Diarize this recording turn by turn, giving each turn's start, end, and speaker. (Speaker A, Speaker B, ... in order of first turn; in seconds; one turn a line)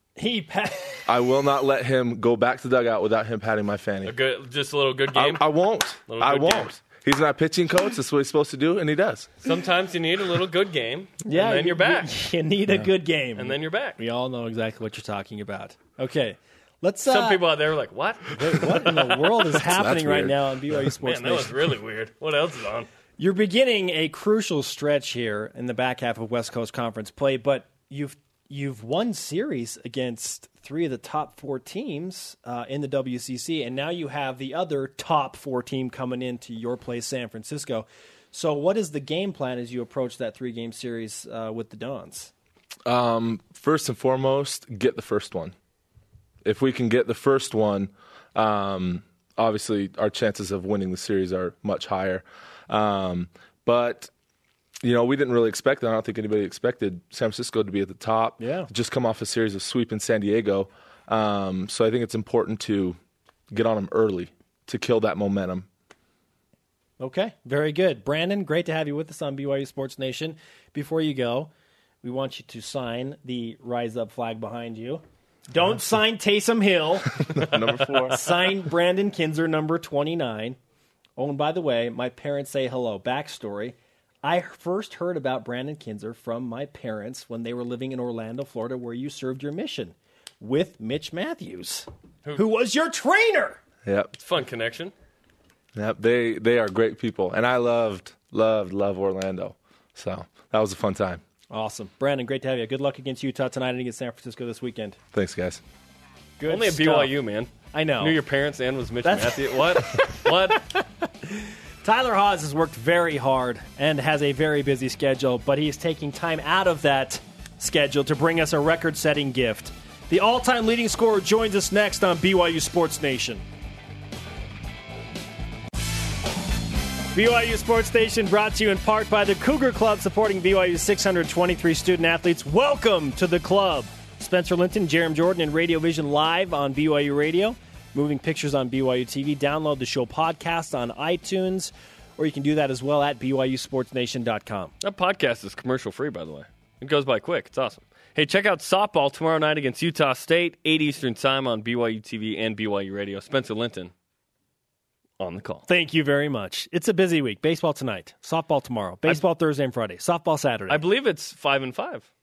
Speaker A: 0.2-1.1
Speaker B: 1.1-4.2
Speaker C: 4.0-5.5
Speaker B: 5.1-9.3
Speaker C: 6.1-6.7
Speaker C: 9.4-12.1
Speaker A: 11.2-17.4
Speaker C: 13.4-14.0
Speaker C: 17.1-19.0
Speaker A: 18.3-21.5
Speaker B: 19.5-20.8
Speaker C: 21.0-22.9
Speaker A: 23.2-42.3
Speaker B: 42.9-45.5
Speaker B: 46.4-54.1
Speaker B: 54.8-63.0
Speaker A: 58.4-58.7
Speaker B: 63.5-65.7
Speaker A: 67.0-71.5
Speaker A: 72.0-77.5
Speaker B: 77.2-78.2
Speaker A: 78.1-80.6
Speaker A: 81.2-93.6
Speaker B: 93.8-94.1
Speaker C: 94.1-94.9
Speaker B: 95.8-101.2
Speaker A: 101.5-105.0
Speaker B: 105.1-105.6
Speaker A: 106.4-107.1
Speaker C: 106.5-110.7
Speaker A: 107.7-108.2
Speaker A: 109.0-123.4
Speaker A: 127.1-144.7
Speaker C: 144.8-153.9
Speaker C: 155.2-155.7
Speaker A: 155.7-160.8
Speaker C: 160.7-162.1